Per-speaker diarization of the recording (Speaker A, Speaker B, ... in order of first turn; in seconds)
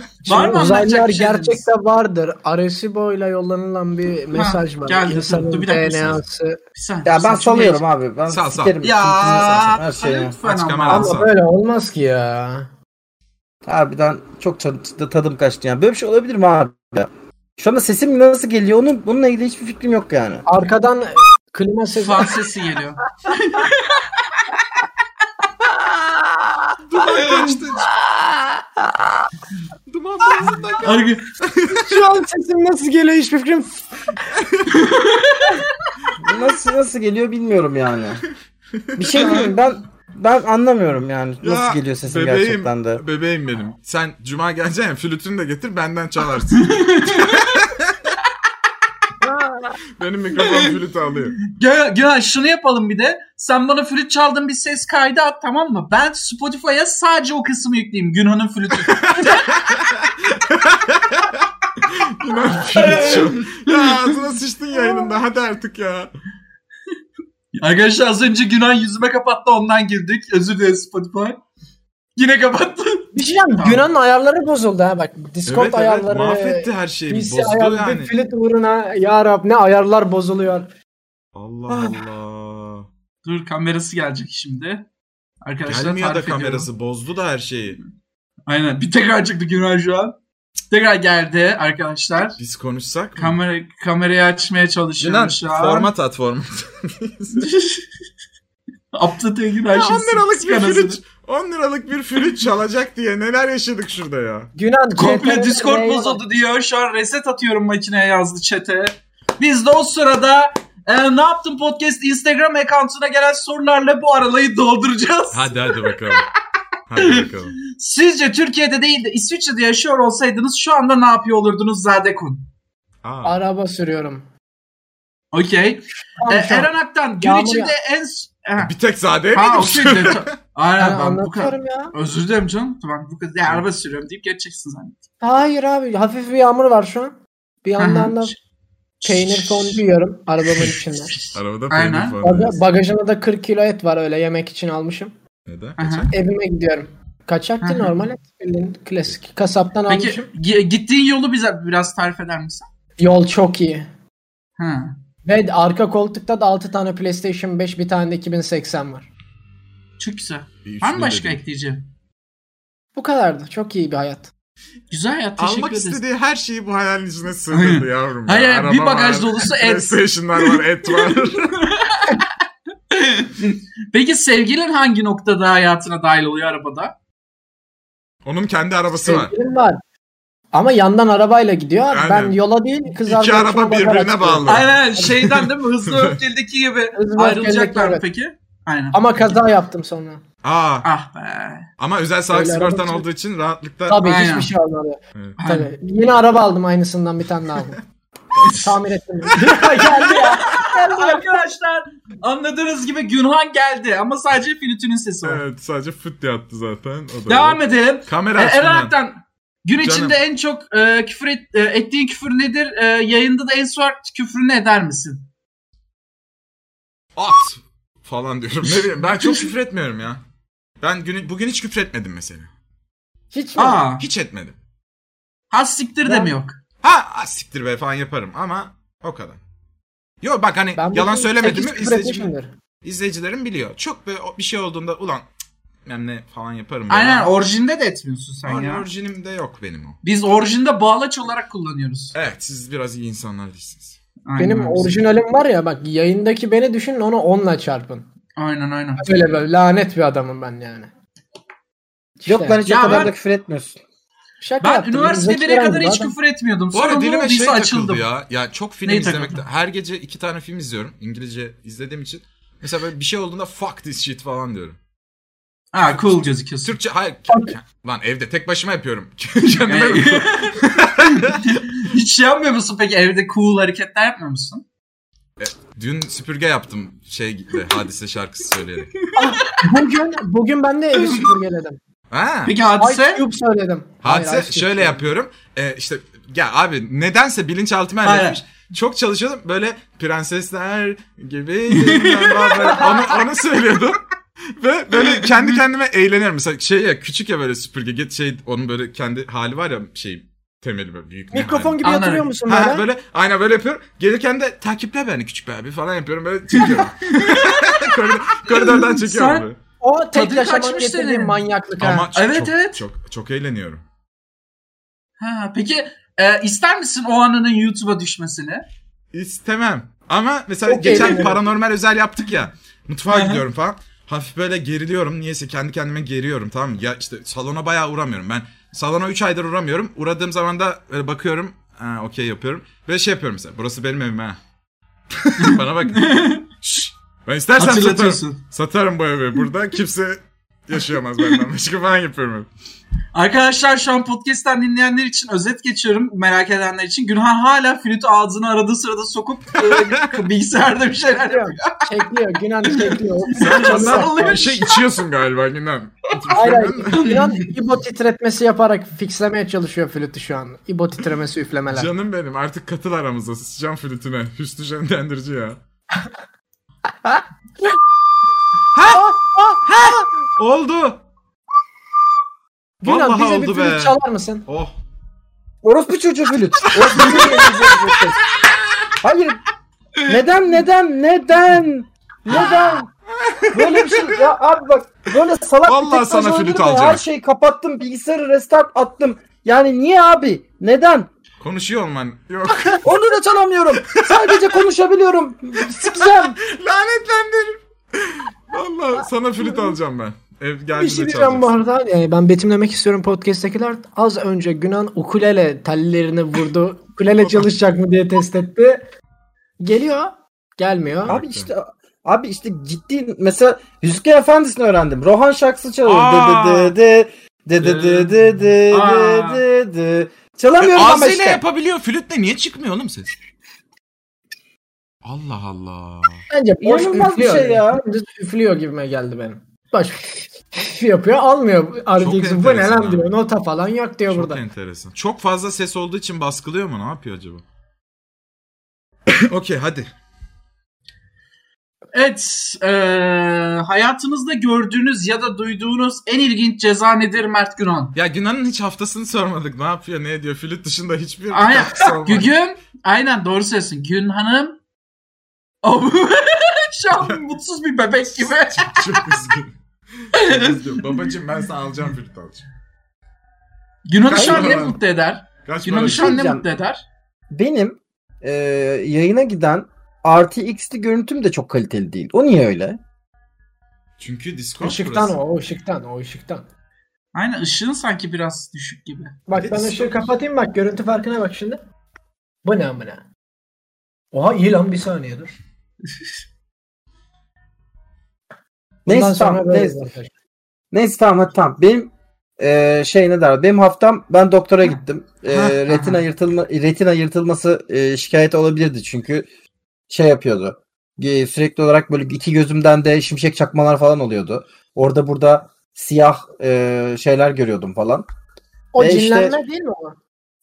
Speaker A: 0.2-1.6, 4.3-6.2, 6.7-7.8, 8.8-11.2, 22.0-23.9, 30.8-31.2, 34.7-35.6, 46.5-47.5, 51.4-59.4, 62.5-64.2, 67.5-71.4, 72.2-73.8, 83.2-84.8, 85.4-86.7, 88.5-90.2, 90.7-92.4, 93.2-95.9, 97.3-97.8, 98.9-101.0, 105.0-116.0, 117.0-122.5, 125.3-128.7, 129.3-135.0, 137.8-138.3, 139.0-139.8, 140.5-142.2, 145.8-146.1, 147.6-147.9, 149.9-152.7, 154.6-154.9, 160.0-161.8, 164.9-166.0, 167.5-172.3, 172.9-176.9, 184.4-189.4, 190.8-191.7, 194.0-194.5, 195.4-195.7, 198.4-198.8, 199.4-205.4, 207.3-215.2, 218.7-219.5, 223.6-224.1, 225.5-226.5, 236.9-238.9, 240.0-242.2, 244.2-244.9, 248.4-249.2, 252.6-253.1, 254.6-258.0, 258.8-259.4, 265.7-266.8, 269.5-274.6, 279.0-279.6, 280.9-281.3, 282.4-283.2, 288.0-288.4, 291.7-293.1, 294.9-295.5, 301.8-302.3, 306.5-309.5, 310.1-311.4, 312.1-312.8, 315.2-318.6, 320.9-321.2, 323.1-323.4, 335.4-336.4, 337.6-338.4, 343.1-351.9, 352.7-354.8, 356.9-357.2, 417.6-419.4, 441.9-447.9, 451.3-454.6, 455.6-459.1, 460.1-460.6, 463.9-466.8, 477.1-479.2, 495.4-496.0
Speaker B: 0.2-6.6, 10.9-12.7, 20.5-22.4, 23.3-23.6, 31.7-33.9, 73.1-80.7, 104.5-106.2, 123.2-124.2, 126.2-127.7, 130.8-131.9, 135.2-138.3, 139.0-141.2, 142.2-145.1, 146.1-150.3, 153.0-153.9, 155.2-159.1, 162.9-164.3, 178.9-179.8, 180.5-185.1, 186.9-188.0, 188.9-190.2, 192.3-193.1, 193.9-197.8, 198.6-201.4, 223.3-223.8, 226.0-226.3, 230.8-232.5, 244.4-248.1, 249.0-250.9, 252.2-253.1, 254.4-256.1, 267.3-267.5, 279.1-281.8, 282.8-285.1, 301.3-302.8, 309.8-312.1, 320.6-321.4, 351.2-354.5, 356.3-361.9, 368.9-369.6, 372.8-374.4, 400.7-408.8, 409.6-411.1, 426.3-434.4, 474.6-476.4, 479.3-481.6, 482.4-483.0, 484.1-485.4, 488.9-490.1, 508.7-510.0
Speaker C: 7.0-10.3, 13.6-20.4, 36.2-38.2, 39.0-43.0, 252.2-253.8, 375.6-378.2, 379.0-379.4, 380.1-382.9, 383.5-391.1, 392.8-396.4, 411.1-421.4, 426.6-427.8, 464.1-464.6, 465.8-466.4, 467.3-472.8, 488.9-489.8, 490.7-499.3, 499.9-508.0, 508.8-509.4
Speaker D: 8.3-8.8, 9.3-9.8, 10.4-11.3, 26.9-27.9, 29.9-31.9, 34.4-34.7, 38.9-39.5, 41.4-48.1, 50.0-51.4, 58.9-66.1, 75.5-78.1, 81.3-82.8, 85.7-87.8, 92.4-93.3, 95.0-97.5, 99.7-104.5, 115.3-116.2, 116.9-117.6, 123.0-123.3, 128.6-130.3, 141.3-142.6, 145.5-146.1, 160.6-161.4, 165.4-171.6, 178.2-179.3, 181.9-182.4, 183.1-186.2, 190.4-190.9, 191.8-194.0, 205.2-208.9, 209.8-210.2, 217.2-220.2, 220.8-222.5, 224.0-224.6, 226.8-229.4, 230.2-232.3, 232.8-235.3, 235.8-237.3, 238.4-240.0, 242.1-244.0, 256.7-264.8, 266.6-271.5, 275.4-278.9, 282.1-282.5, 284.0-294.0, 294.5-301.8, 302.4-309.6, 311.8-313.8, 319.1-334.4, 335.1-342.5, 349.7-350.2, 353.4-357.1, 361.7-365.6, 368.7-369.1, 369.6-371.0, 372.8-373.9, 374.5-374.7, 376.8-377.5, 383.2-384.1, 385.6-387.0, 391.4-392.9, 393.9-394.6, 395.7-401.5, 411.1-411.5, 415.8-416.7, 420.6-423.1, 425.0-426.2, 432.0-433.1, 434.1-437.4, 439.1-439.9, 447.9-452.3, 458.6-462.4, 464.1-464.8, 465.4-466.2, 474.0-475.2, 479.4-480.1